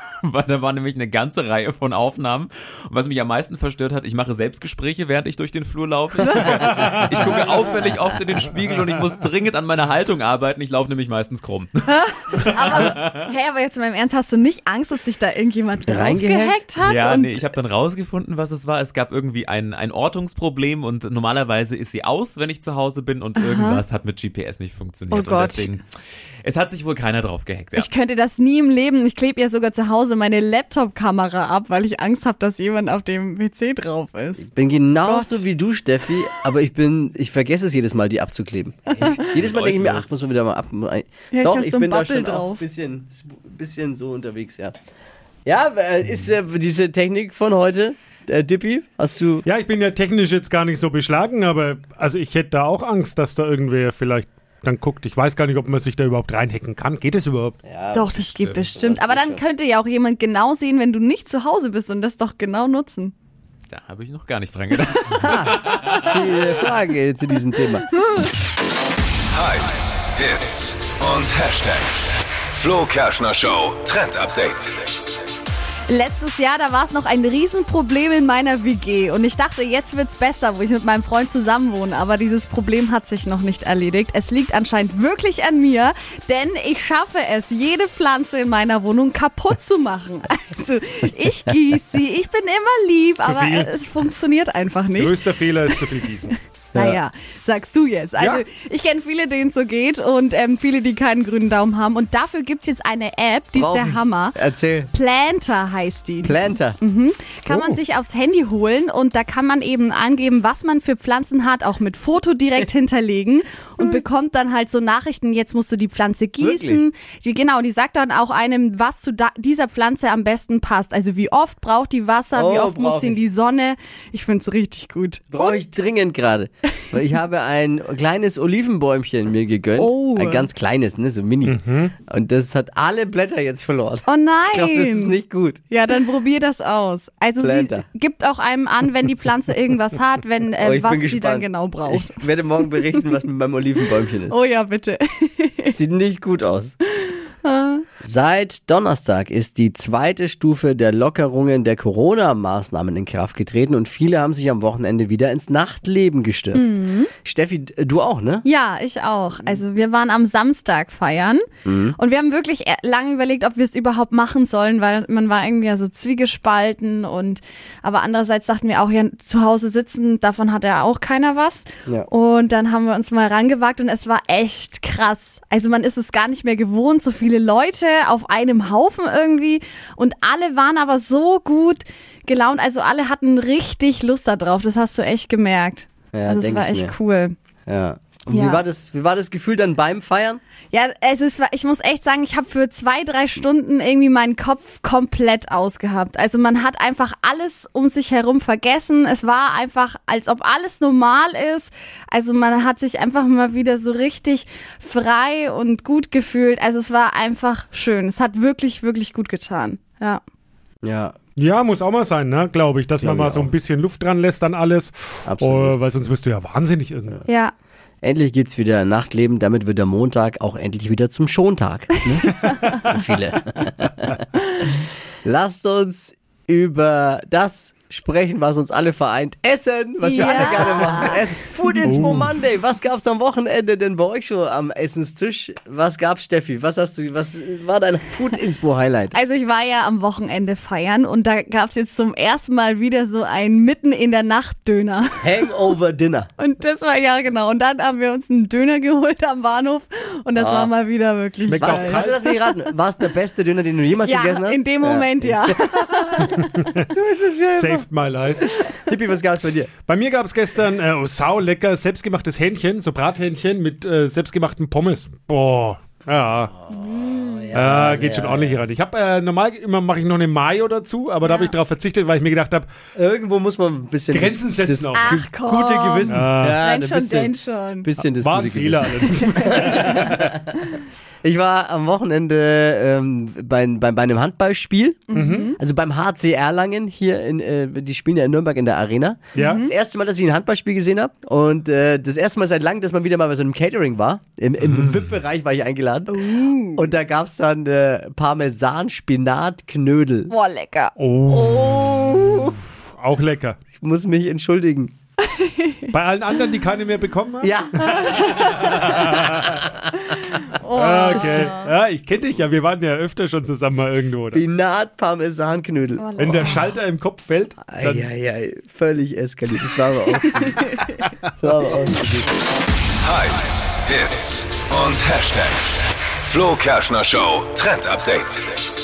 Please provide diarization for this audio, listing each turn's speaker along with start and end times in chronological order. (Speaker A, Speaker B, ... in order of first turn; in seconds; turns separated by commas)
Speaker A: 0.2-11.7, Speaker B: 11.9-17.5, Speaker A: 12.4-13.2, Speaker C: 15.9-16.6, Speaker A: 16.8-25.8, Speaker B: 23.4-23.8, Speaker B: 25.1-25.7, Speaker A: 26.4-27.9, Speaker B: 27.8-34.5, Speaker C: 34.4-44.8, Speaker B: 35.0-35.4, Speaker A: 39.0-40.1, Speaker B: 41.3-42.6, Speaker C: 45.5-49.5, Speaker D: 49.5-57.6, Speaker C: 57.7-59.4, Speaker B: 57.9-63.1, Speaker A: 63.7-66.2, Speaker B: 64.9-65.7, Speaker C: 65.2-67.9, Speaker E: 69.3-74.9, Speaker B: 75.9-104.4, Speaker D: 93.2-93.7, Speaker D: 95.0-96.3, Speaker C: 96.8-97.0, Speaker D: 98.2-98.4, Speaker C: 103.5-104.9, Speaker B: 104.9-125.6, Speaker C: 106.2-106.8, Speaker D: 107.5-107.8, Speaker C: 116.4-116.8, Speaker C: 122.3-123.2, Speaker C: 125.3-135.6, Speaker B: 129.8-130.5, Speaker D: 131.5-131.9, Speaker B: 134.1-135.1, Speaker B: 135.7-143.1, Speaker C: 137.4-137.9, Speaker C: 140.6-144.4, Speaker B: 144.3-145.8, Speaker C: 145.7-146.7, Speaker B: 146.9-147.9, Speaker C: 148.0-158.4, Speaker B: 156.5-157.1, Speaker B: 158.4-161.5, Speaker C: 161.7-162.0, Speaker B: 162.0-187.3, Speaker C: 186.1-186.9, Speaker C: 187.7-190.4, Speaker B: 188.3-188.6, Speaker B: 190.7-210.2, Speaker C: 210.8-211.2, Speaker D: 211.4-217.2, Speaker C: 213.0-213.5, Speaker C: 215.3-215.8, Speaker B: 217.3-217.5, Speaker C: 218.0-224.2, Speaker D: 222.4-222.7, Speaker C: 225.2-239.2, Speaker B: 230.0-231.2, Speaker D: 231.8-232.3, Speaker B: 239.1-245.4, Speaker C: 245.2-246.3, Speaker B: 246.4-252.1, Speaker C: 250.4-250.7, Speaker D: 251.5-252.2, Speaker C: 251.6-256.4, Speaker B: 254.1-256.5, Speaker C: 256.9-257.9, Speaker D: 257.5-258.5, Speaker C: 258.8-259.7, Speaker D: 259.8-266.5, Speaker C: 266.7-268.6, Speaker B: 266.7-267.7, Speaker D: 267.5-272.8, Speaker B: 271.2-271.5, Speaker C: 272.9-280.4, Speaker D: 274.1-275.2, Speaker B: 274.9-277.9, Speaker D: 276.1-276.6, Speaker D: 278.0-280.2, Speaker B: 279.1-280.0, Speaker C: 281.2-296.2, Speaker B: 285.1-285.5, Speaker D: 285.1-285.5, Speaker D: 289.4-289.6, Speaker B: 289.4-289.7, Speaker B: 296.1-296.9, Speaker C: 296.8-300.3, Speaker B: 300.3-300.9, Speaker D: 301.0-303.6, Speaker C: 301.3-302.6, Speaker C: 303.8-304.9, Speaker B: 305.3-305.9, Speaker D: 305.9-309.6, Speaker C: 307.4-308.3, Speaker B: 308.2-309.0, Speaker B: 310.1-311.7, Speaker D: 310.7-314.4, Speaker C: 314.3-316.1, Speaker B: 316.0-316.7, Speaker D: 316.2-318.1, Speaker C: 317.7-320.8, Speaker B: 320.2-321.1, Speaker C: 321.4-322.4, Speaker E: 323.0-328.6